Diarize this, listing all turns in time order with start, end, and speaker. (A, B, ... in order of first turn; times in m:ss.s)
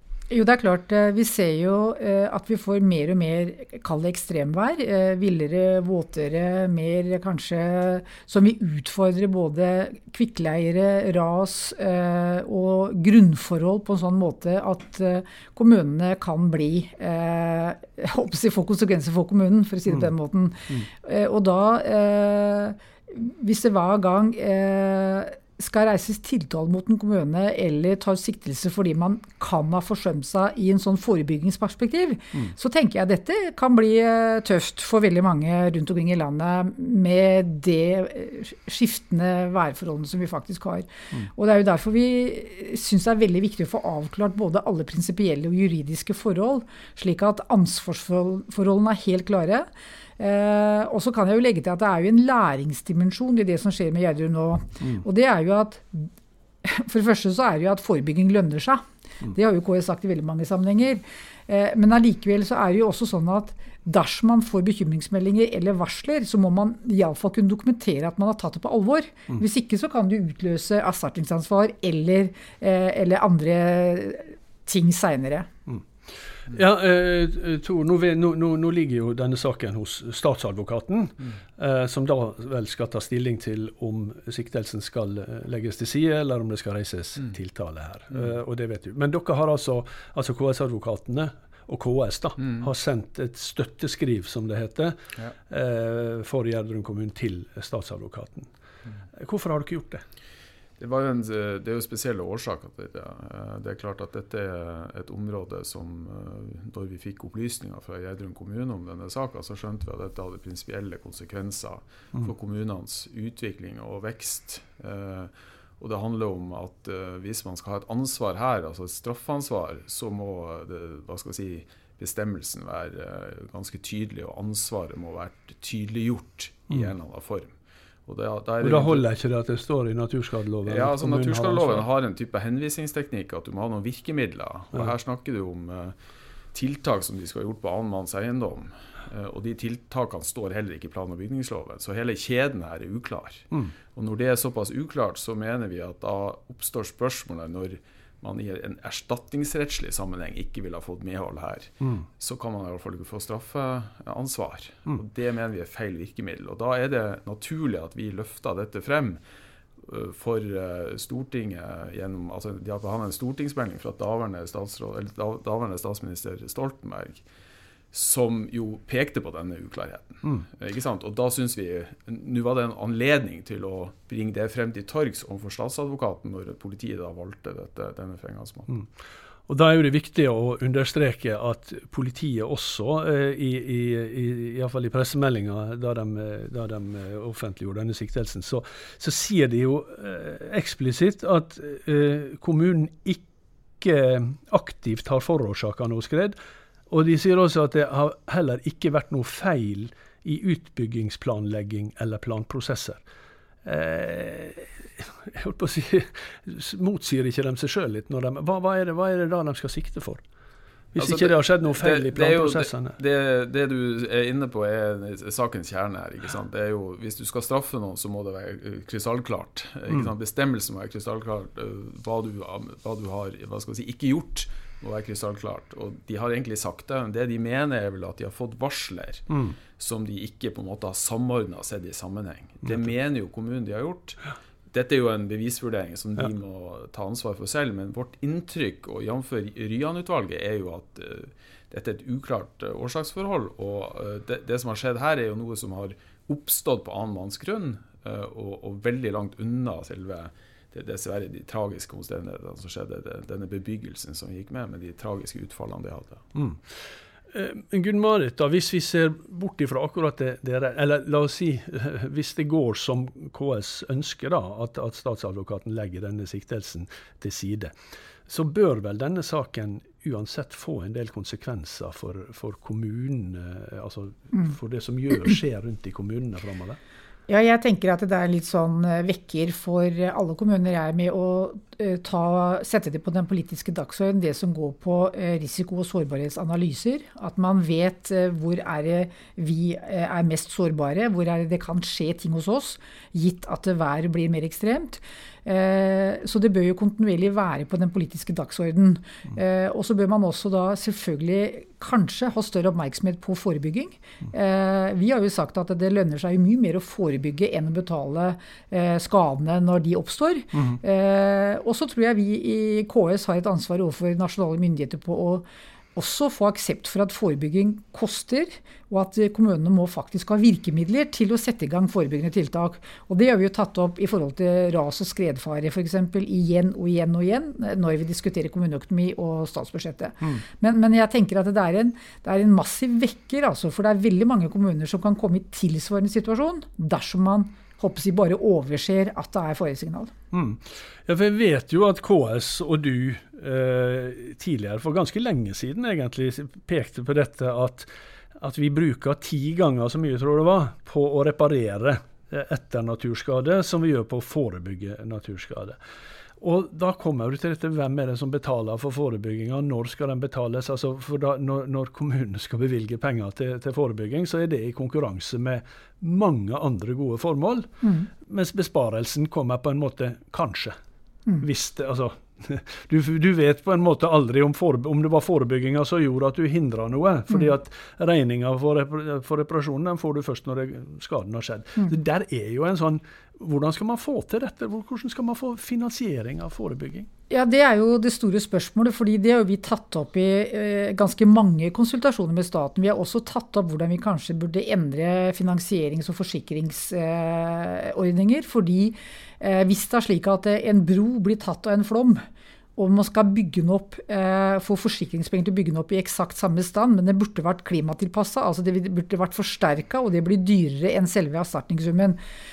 0:00.3-0:49.7 A
0:50.2-0:56.1 A
0:56.6-1:15.5 A
1:16.5-1:35.0 B
1:32.4-1:32.6 C
1:35.5-1:38.5 B
1:39.2-1:40.0 B
1:40.8-2:07.5 C
2:08.0-2:09.0 C
2:08.6-2:11.8 B
2:10.6-2:15.9 C
2:16.5-2:39.2 C
2:39.8-2:47.2 C
2:47.9-2:58.7 C
2:59.5-3:13.2 B
3:13.8-3:16.4 B
3:16.9-3:23.0 B
3:23.6-3:30.2 B
3:30.9-3:33.0 B
3:31.0-3:49.2 C
3:49.3-3:49.6 B
3:49.8-4:16.2 C
4:16.3-4:16.6 B
4:17.3-4:27.7 B
4:28.3-4:36.8 B
4:37.3-5:40.1 A
5:40.3-5:55.8 B
5:56.4-6:07.7 B
6:07.8-6:08.1 A
6:08.2-6:10.7 B
6:11.4-6:27.1 B
6:27.3-6:42.2 A
6:42.8-6:52.2 A